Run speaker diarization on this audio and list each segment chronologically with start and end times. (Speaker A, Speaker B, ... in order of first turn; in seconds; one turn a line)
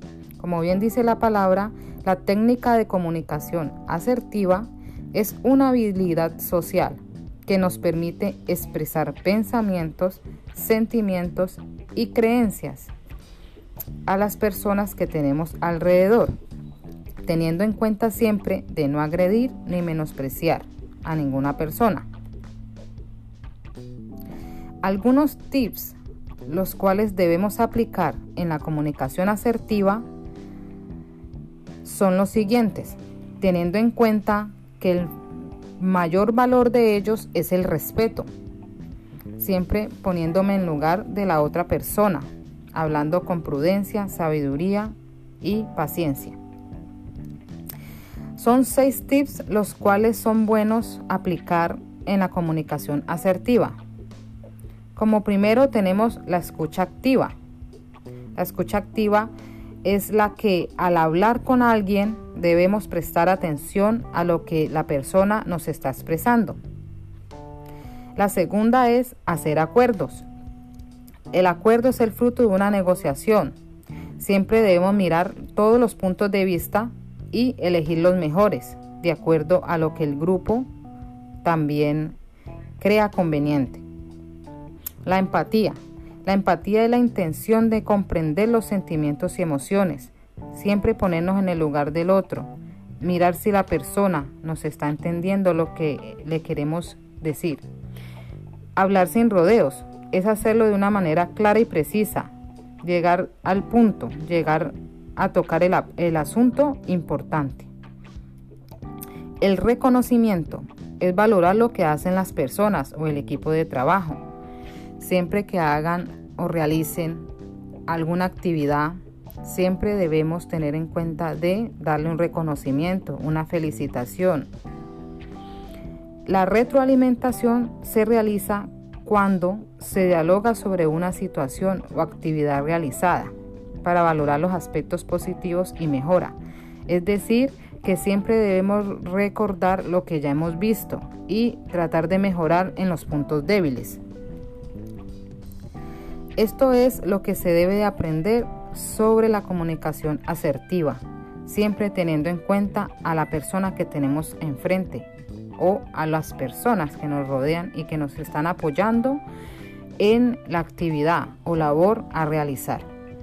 Speaker A: 0.4-12.9
Speaker A: 14.1-16.4
Speaker A: 17.2-22.1
Speaker A: 24.8-30.1
Speaker A: 31.8-35.1
Speaker A: 35.8-38.3
Speaker A: 39.4-46.4
Speaker A: 48.4-53.8
Speaker A: 55.0-57.4
Speaker A: 58.4-59.3
Speaker A: 59.8-66.6
Speaker A: 68.2-70.3
Speaker A: 71.3-73.5
Speaker A: 74.2-80.7
Speaker A: 81.4-82.2
Speaker A: 82.8-83.8
Speaker A: 85.0-97.7
Speaker A: 98.8-102.3
Speaker A: 102.8-107.7
Speaker A: 109.4-114.2
Speaker A: 115.0-117.3
Speaker A: 117.9-124.5
Speaker A: 126.3-136.4
Speaker A: 136.9-144.0
Speaker A: 146.4-159.2
Speaker A: 160.0-162.9